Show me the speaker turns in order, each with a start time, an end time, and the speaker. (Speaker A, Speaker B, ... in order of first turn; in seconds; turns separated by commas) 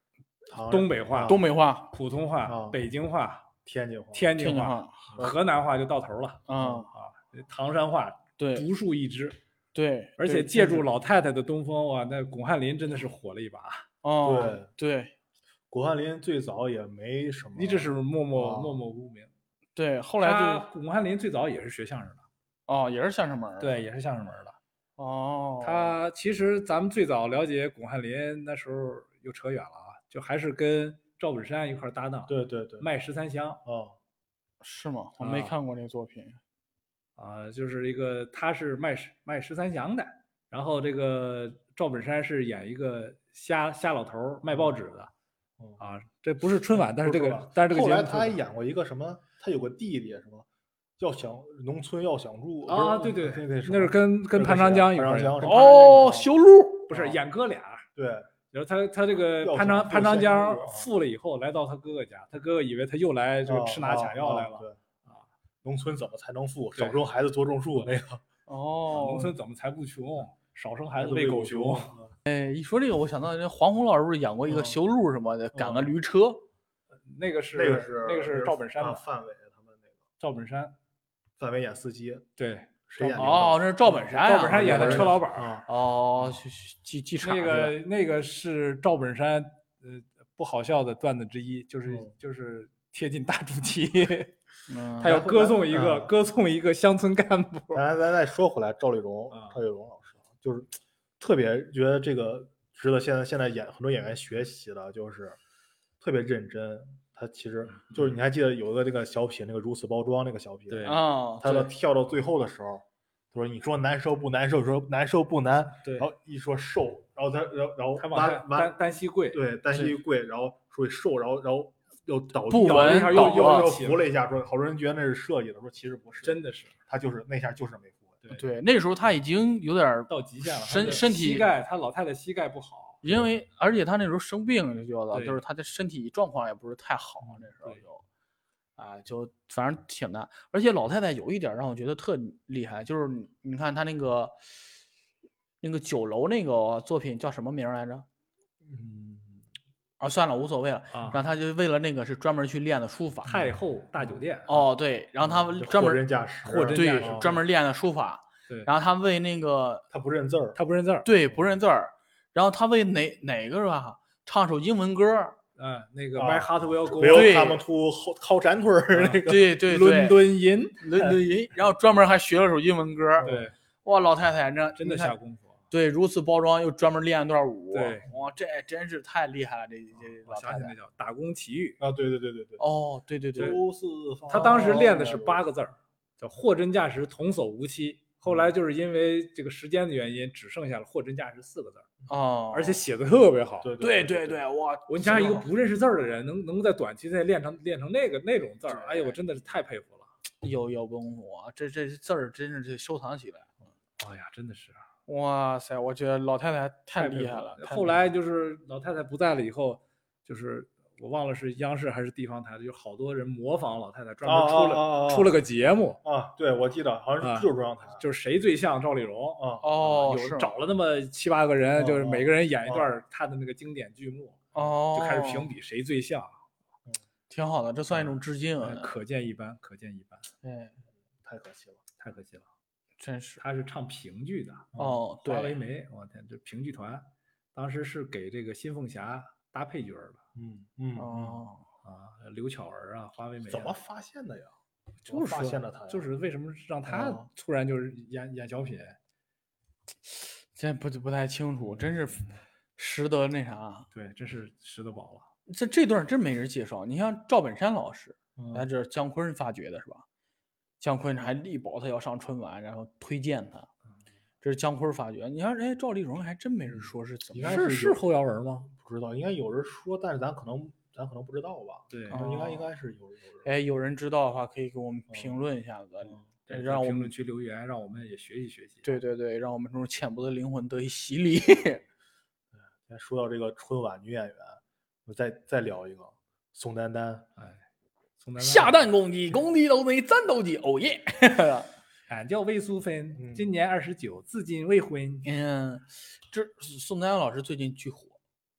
Speaker A: 0.5-1.4, Speaker B: 0.7-3.5, Speaker C: 1.2-1.9, Speaker A: 2.5-2.8, Speaker A: 3.6-4.3, Speaker B: 4.1-9.4, Speaker C: 4.3-5.3, Speaker C: 6.5-6.9, Speaker A: 6.6-6.8, Speaker C: 8.4-8.7, Speaker C: 9.7-10.8, Speaker B: 10.2-13.9, Speaker C: 14.0-15.1, Speaker A: 14.2-14.7, Speaker A: 15.7-18.8, Speaker B: 17.6-19.3, Speaker C: 19.7-20.7, Speaker B: 20.2-22.2, Speaker C: 22.7-23.8, Speaker B: 23.6-24.6, Speaker C: 25.0-26.0, Speaker B: 25.6-33.6, Speaker A: 32.3-32.9, Speaker A: 33.6-34.0, Speaker C: 34.6-36.4, Speaker B: 35.2-35.5, Speaker B: 37.2-45.1, Speaker B: 45.8-48.4, Speaker A: 46.7-50.5, Speaker A: 51.0-56.3, Speaker B: 52.7-56.0, Speaker C: 55.4-56.9, Speaker A: 56.9-57.2, Speaker B: 56.9-57.9, Speaker A: 57.9-58.3, Speaker B: 58.5-65.3, Speaker A: 59.4-60.9, Speaker A: 63.5-64.8, Speaker A: 65.6-68.2, Speaker C: 68.5-69.3, Speaker B: 68.9-71.9, Speaker A: 71.0-72.1, Speaker C: 72.2-76.4, Speaker A: 74.5-74.8, Speaker A: 75.5-75.9, Speaker B: 77.1-79.0, Speaker A: 77.5-79.8, Speaker B: 80.2-80.7, Speaker A: 81.4-82.2, Speaker B: 82.4-83.4, Speaker A: 82.8-85.7, Speaker C: 83.0-87.8, Speaker B: 84.0-85.5, Speaker B: 87.2-94.3, Speaker C: 94.7-95.2, Speaker B: 95.0-97.8, Speaker A: 95.0-96.1, Speaker A: 97.7-105.4, Speaker B: 99.3-99.6, Speaker A: 106.0-118.7, Speaker B: 107.7-108.1, Speaker B: 110.7-111.0, Speaker C: 110.8-111.7, Speaker B: 118.0-119.4, Speaker A: 119.3-128.2, Speaker C: 122.5-123.7, Speaker B: 122.6-124.1, Speaker B: 126.2-126.7, Speaker C: 128.3-131.5, Speaker B: 130.1-133.0, Speaker C: 133.0-138.0, Speaker B: 135.1-135.4, Speaker C: 138.8-144.4, Speaker C: 145.6-148.1, Speaker A: 148.7-149.4, Speaker C: 150.0-153.5, Speaker B: 150.9-151.2, Speaker B: 153.2-154.6, Speaker C: 154.5-156.0, Speaker A: 155.2-157.3, Speaker B: 156.4-157.4, Speaker C: 156.7-159.8, Speaker A: 159.9-160.6, Speaker B: 160.6-161.1, Speaker C: 161.0-165.4, Speaker B: 165.6-167.5, Speaker A: 166.1-169.5, Speaker C: 167.0-167.6, Speaker B: 168.9-171.1, Speaker C: 169.2-175.2, Speaker A: 173.2-173.5, Speaker B: 173.2-173.5, Speaker B: 174.8-175.6, Speaker C: 175.7-180.7, Speaker B: 177.7-178.1, Speaker B: 180.2-181.8, Speaker A: 181.8-182.6, Speaker C: 182.6-183.6, Speaker A: 183.4-185.4, Speaker B: 184.3-191.9, Speaker C: 184.3-184.9, Speaker A: 188.2-188.5, Speaker C: 192.1-192.8, Speaker B: 192.5-193.7, Speaker A: 193.6-194.4, Speaker C: 193.8-195.5, Speaker B: 194.9-200.1, Speaker A: 198.7-199.1, Speaker C: 200.4-203.5, Speaker B: 204.0-204.8, Speaker C: 205.1-208.0, Speaker B: 206.9-216.0, Speaker A: 214.2-215.3, Speaker A: 216.0-218.0, Speaker B: 217.2-226.4, Speaker A: 219.4-219.7, Speaker C: 219.6-220.5, Speaker A: 221.8-222.9, Speaker C: 224.5-225.5, Speaker C: 227.3-228.9, Speaker B: 228.6-230.2, Speaker C: 230.4-230.7, Speaker A: 231.2-231.8, Speaker B: 232.0-232.4, Speaker C: 233.0-233.4, Speaker B: 233.4-240.2, Speaker A: 234.7-235.0, Speaker C: 234.8-235.6, Speaker A: 240.3-241.4, Speaker C: 240.9-241.7, Speaker B: 241.8-243.7, Speaker A: 243.5-244.5, Speaker B: 245.0-249.0, Speaker A: 245.1-246.1, Speaker A: 246.9-247.3, Speaker C: 250.5-253.9, Speaker B: 253.9-255.3, Speaker C: 255.5-260.0, Speaker A: 258.4-258.7, Speaker C: 260.8-263.7, Speaker C: 264.4-267.6, Speaker A: 267.3-268.0, Speaker B: 267.4-268.7, Speaker A: 268.7-273.5, Speaker B: 271.9-272.2, Speaker C: 272.1-272.7, Speaker C: 273.4-277.1, Speaker B: 276.5-278.9, Speaker C: 278.8-281.8, Speaker A: 282.8-287.2, Speaker B: 287.4-287.6, Speaker B: 288.2-288.8, Speaker C: 288.4-291.7, Speaker B: 292.1-295.3, Speaker A: 293.2-293.4, Speaker C: 295.2-298.2